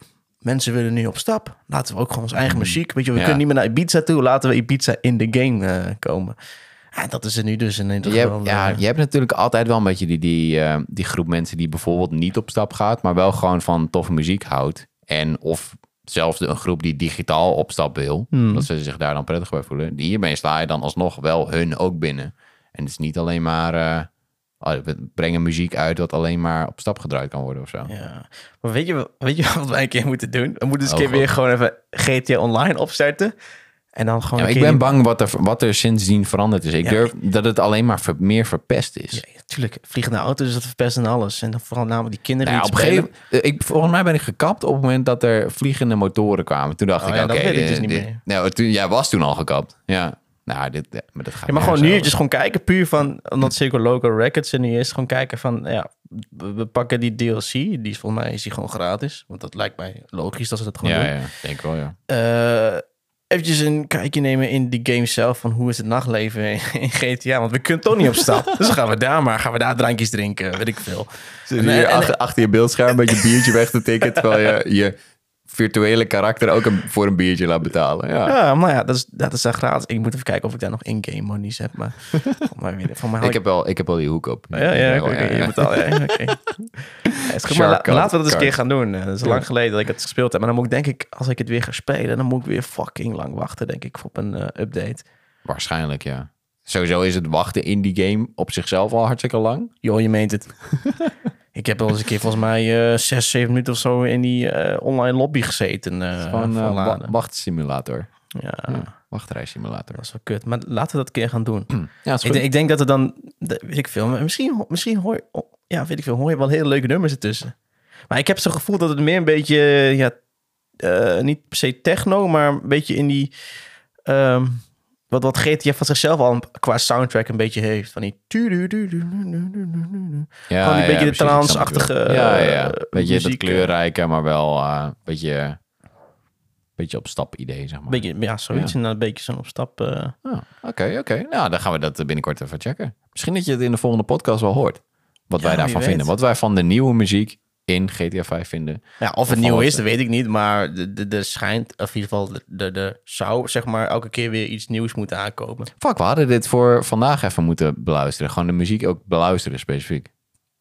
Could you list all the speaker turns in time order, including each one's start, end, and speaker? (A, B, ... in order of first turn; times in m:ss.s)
0:00.4-0:06.3 A
0:02.5-0:03.4 B
0:06.9-0:08.8 A
0:08.0-0:24.1 B
0:18.3-0:18.6 A
0:24.6-0:27.9 B
0:27.9-0:33.3 A
0:30.9-0:31.3 B
0:34.0-0:34.8 A
0:34.4-0:39.2 B
0:36.8-0:37.1 A
0:39.1-0:43.1 A
0:42.4-0:52.1 B
0:47.0-0:48.2 A
0:51.5-1:01.2 A
1:00.8-1:01.9 B
1:02.1-1:12.1 A
1:11.5-1:14.9 B
1:13.0-1:13.6 A
1:15.5-1:18.4 B
1:18.2-1:23.4 A
1:23.2-1:26.3 B
1:24.5-1:26.5 A
1:27.0-1:28.5 B
1:27.2-1:35.0 A
1:35.4-1:39.7 B
1:39.8-1:40.6 A
1:41.5-1:47.1 A
1:46.2-1:48.1 B
1:48.3-1:48.9 A
1:48.7-1:50.0 B
1:49.9-1:57.5 A
1:51.7-1:52.4 B
1:58.1-2:00.2 A
2:00.8-2:03.3 A
2:04.1-2:13.7 A
2:10.5-2:15.6 B
2:16.8-2:18.7 B
2:17.9-2:20.1 A
2:20.2-2:29.8 B
2:25.4-2:26.1 A
2:29.0-2:35.7 A
2:35.8-2:40.1 B